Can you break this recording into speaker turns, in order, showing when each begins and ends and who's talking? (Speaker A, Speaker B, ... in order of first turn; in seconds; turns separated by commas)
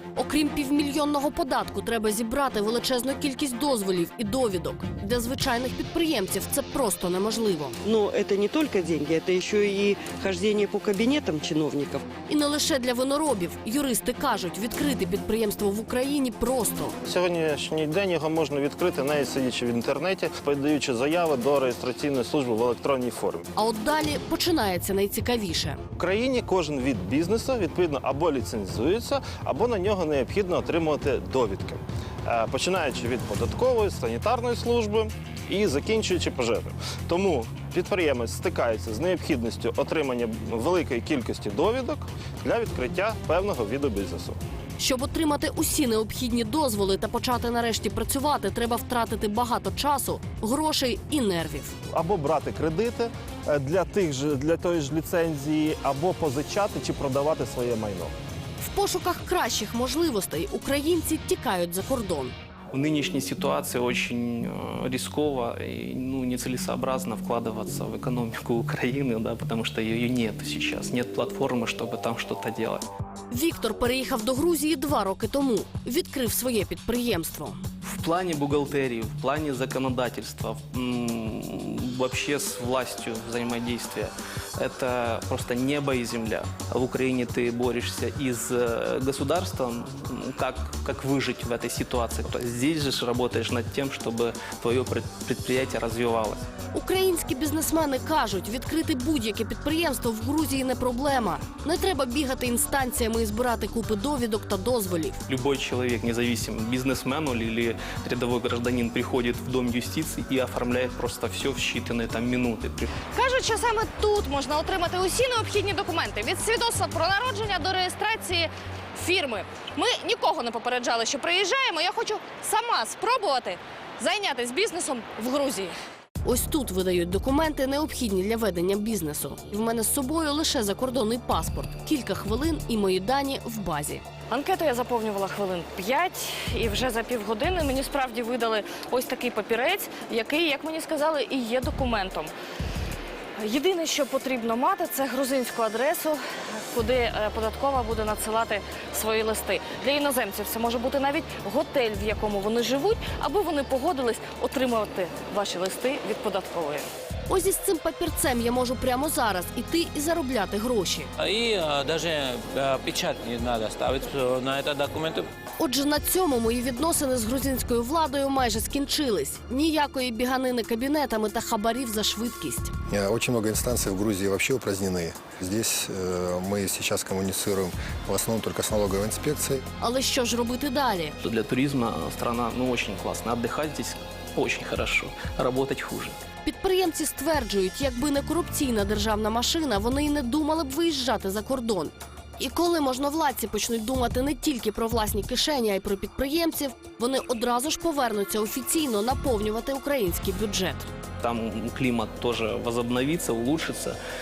Speaker A: 0.1-7.8, Speaker B: 7.8-12.0, Speaker A: 12.3-16.9, Speaker C: 17.0-23.5, Speaker A: 23.6-25.8, Speaker C: 26.0-44.4, Speaker A: 44.8-51.7, Speaker C: 51.9-58.1, Speaker A: 58.6-62.3, Speaker D: 62.7-72.8, Speaker A: 73.3-77.6, Speaker D: 77.8-96.5, Speaker A: 96.7-105.2, Speaker D: 105.3-112.9, Speaker E: 113.1-125.7, Speaker A: 126.2-134.0, Speaker E: 134.3-142.3, Speaker E: 143.4-146.2, Speaker E: 146.7-156.8, Speaker A: 157.3-161.1, Speaker F: 161.2-165.3, Speaker A: 165.6-172.7, Speaker G: 172.9-179.6, Speaker A: 179.8-181.2, Speaker D: 181.2-186.2, Speaker A: 186.4-200.9, Speaker D: 201.2-204.0